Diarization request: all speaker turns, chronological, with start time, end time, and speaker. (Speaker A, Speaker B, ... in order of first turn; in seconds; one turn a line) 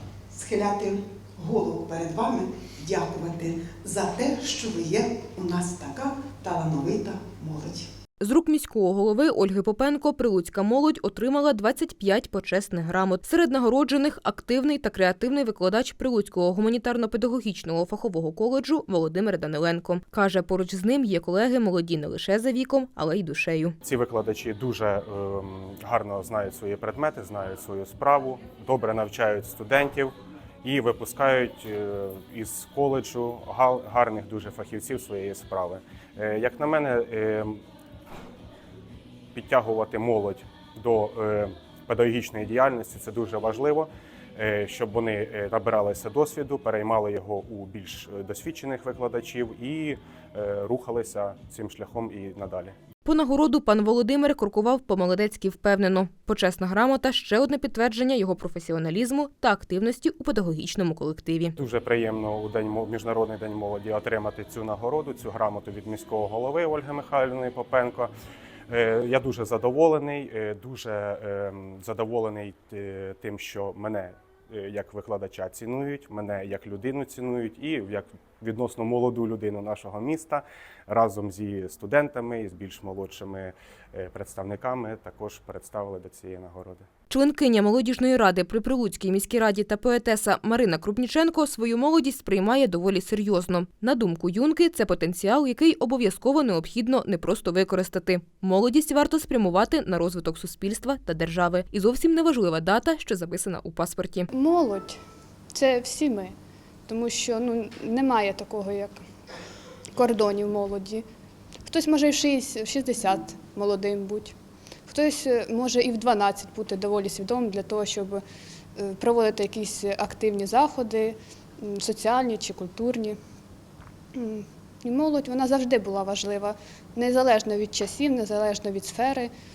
Speaker A: 0.3-7.8
Speaker B: 8.2-23.8
Speaker C: 23.8-30.1
Speaker C: 30.6-37.6
Speaker C: 39.3-52.7
Speaker B: 53.0-61.5
Speaker C: 61.5-68.1
Speaker C: 68.7-86.8
Speaker B: 87.1-104.3
Speaker D: 104.3-105.0
Speaker D: 105.5-106.3
Speaker D: 106.9-109.0
Speaker D: 109.9-111.0
Speaker D: 111.6-114.3
Speaker D: 114.9-118.2
Speaker D: 118.8-123.2
Speaker D: 124.1-129.3